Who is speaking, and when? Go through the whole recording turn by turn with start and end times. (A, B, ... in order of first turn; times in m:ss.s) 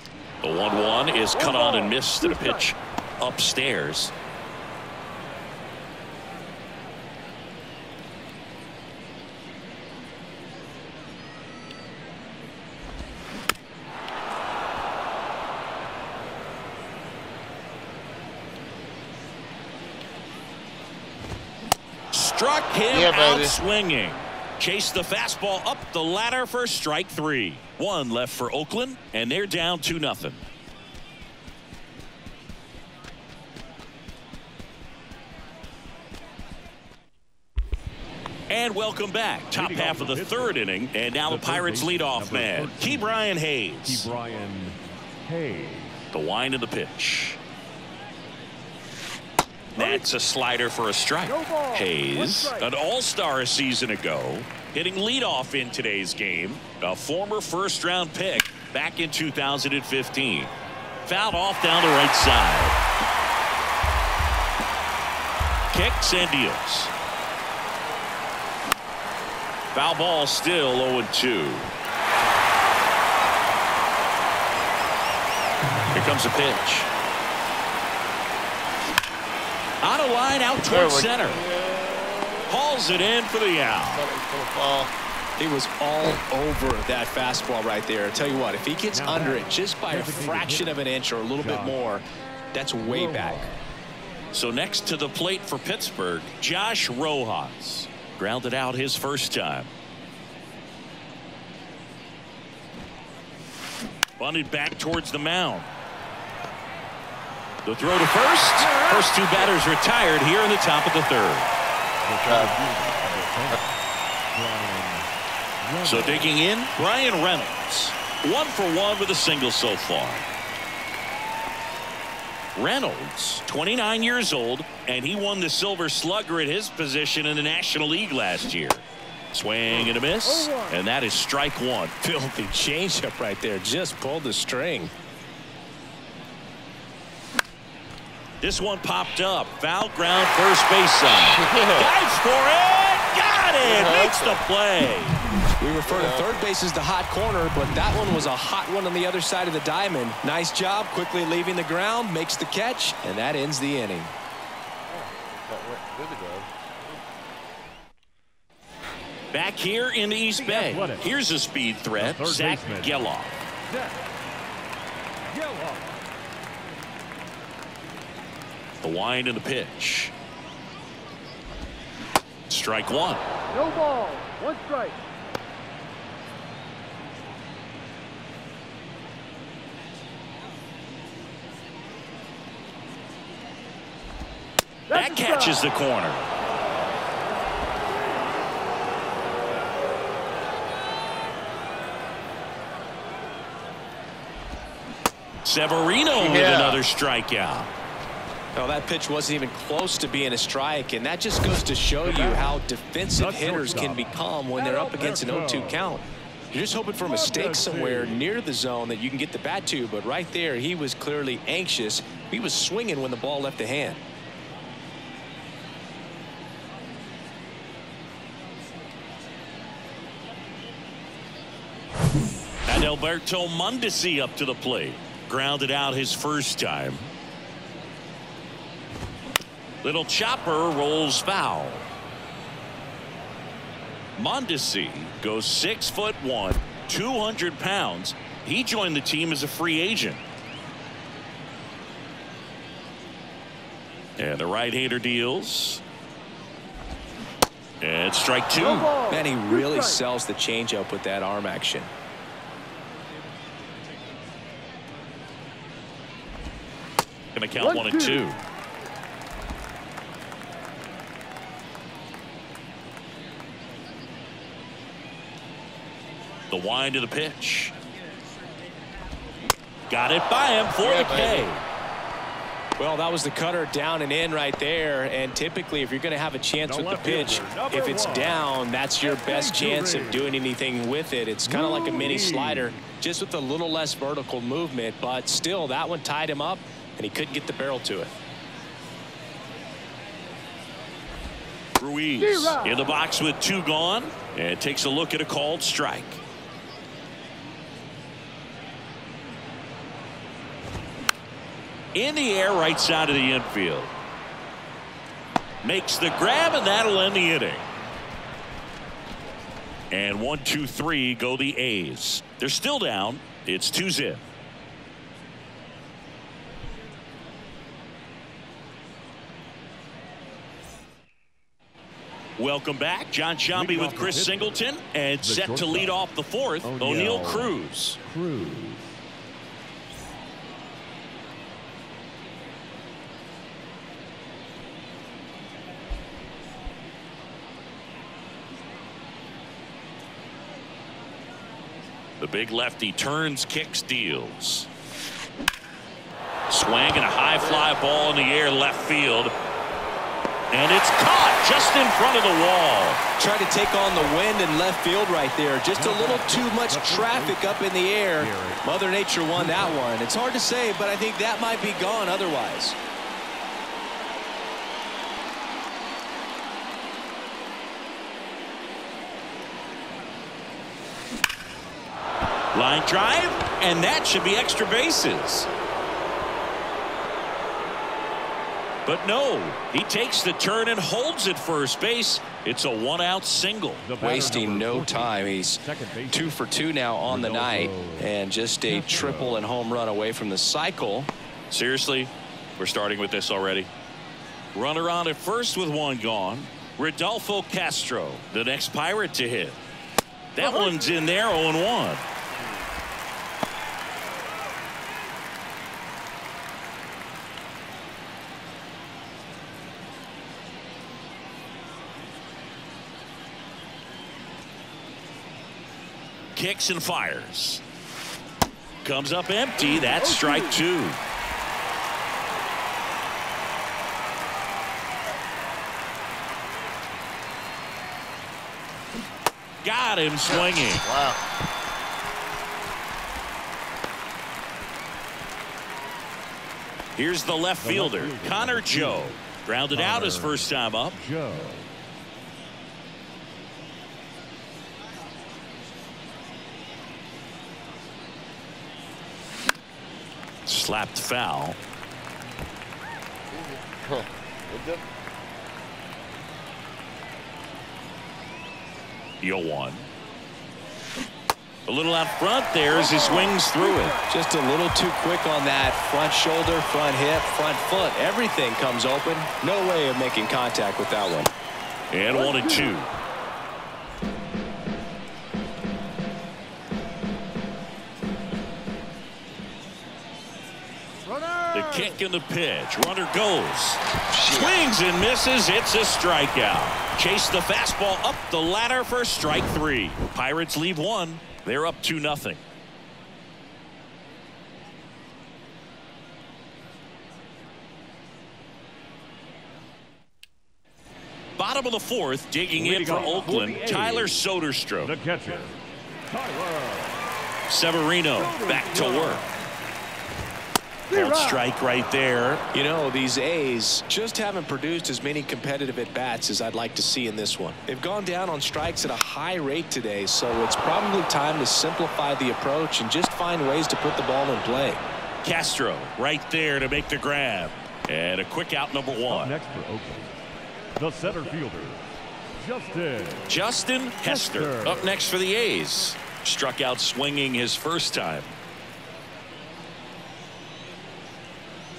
0:00.4-0:04.1 A
0:01.3-0:02.7 B
0:22.1-0:30.4 A
0:22.9-0:23.6 C
0:38.5-0:44.1 A
0:39.5-0:40.6 D
0:41.2-0:43.1 D
0:43.8-0:46.0 D
0:46.1-0:47.4 A
0:49.7-1:00.5 A
0:51.3-0:52.7 B
1:01.0-1:02.8 A
1:05.7-1:06.9 A
1:09.7-1:11.7 A
1:15.9-1:16.9 A
1:19.8-1:21.4 A
1:20.7-1:22.5 C
1:22.5-1:24.0 A
1:23.8-1:24.9 C
1:25.4-1:33.5 E
1:28.9-1:30.8 D
1:31.4-1:31.8 D
1:32.8-1:33.6 D
1:34.3-1:39.7 A
1:44.2-1:45.7 A
1:47.6-1:51.5 A
1:48.6-1:49.3 B
1:52.0-1:53.7 D
1:52.2-1:53.6 C
1:54.3-1:55.1 D
1:55.6-1:56.4 D
1:55.8-2:00.3 A
2:02.5-2:11.9 A
2:10.2-2:10.8 B
2:12.0-2:14.9 E
2:18.4-2:25.2 A
2:21.1-2:21.9 C
2:23.6-2:24.4 C
2:25.6-2:34.1 E
2:25.8-2:26.5 C
2:34.9-2:36.5 C
2:39.3-2:43.4 A
2:40.4-2:41.1 D
2:42.0-2:43.0 D
2:43.6-2:44.1 D
2:45.3-2:45.9 D
2:48.8-2:50.1 A
2:52.5-2:53.2 A
2:53.5-2:55.0 B
3:04.9-3:05.6 B
3:04.9-3:06.2 A
3:15.4-3:17.7 A
3:16.1-3:16.8 C
3:18.6-3:34.0 E
3:22.0-3:22.6 D
3:23.2-3:26.0 D
3:27.0-3:28.2 D
3:42.7-3:47.1 A
3:49.8-3:51.8 A
3:54.2-4:00.2 A
4:04.2-4:05.8 A
4:07.8-4:08.9 A
4:08.6-4:10.0 B
4:09.1-4:11.9 E
4:17.3-4:18.4 A
4:17.6-4:18.3 B
4:26.5-4:27.7 A
4:29.9-4:31.6 A
4:30.8-4:31.5 C
4:32.8-4:48.1 E
4:36.6-4:38.4 D
4:39.0-4:40.4 D
4:41.4-4:42.7 D
4:51.7-4:56.2 A
4:52.2-4:52.8 B
5:01.9-5:03.9 A
5:05.6-5:07.6 A
5:09.9-5:14.2 A
5:22.4-5:28.0 A
5:23.5-5:24.6 D
5:25.2-5:26.0 D
5:26.6-5:28.9 D
5:42.2-5:44.7 A
5:46.5-5:49.3 A
5:50.5-5:53.0 A
5:53.2-6:02.8 E
5:55.7-5:58.6 D
5:59.3-5:59.8 D
6:12.5-6:15.5 A
6:18.8-6:23.8 A
6:23.8-6:26.4 D
6:24.0-6:31.1 E
6:27.1-6:28.1 D
6:28.6-6:29.4 D
6:31.5-6:33.7 A
6:34.5-6:39.6 A
6:40.3-6:42.0 A
6:40.4-6:40.8 B
6:56.3-6:57.6 A
6:58.8-7:01.0 A
6:59.6-7:00.6 B
7:09.6-7:10.8 A
7:10.2-7:11.2 C
7:17.0-7:21.0 A
7:17.6-7:19.2 D
7:19.7-7:21.7 D
7:30.4-7:31.6 A
7:33.3-7:34.8 C
7:39.2-7:39.9 A
7:41.6-7:43.9 A
7:42.7-7:44.1 B
7:44.1-7:51.3 E
7:51.9-7:52.9 A
7:52.1-7:52.8 B
8:01.0-8:01.9 B
8:01.5-8:12.4 A
8:04.1-8:04.6 C
8:21.4-8:24.9 A
8:22.5-8:24.2 D
8:24.8-8:25.6 D
8:26.1-8:27.1 D
8:27.5-8:29.2 A
8:28.1-8:29.4 D
8:30.9-8:31.4 B
8:30.9-8:32.4 A
8:32.5-8:44.8 E
8:45.2-8:49.3 A
8:49.1-8:50.1 D
8:50.8-8:51.9 D
8:52.4-8:53.3 D
8:53.3-8:58.3 A
8:54.0-8:55.0 D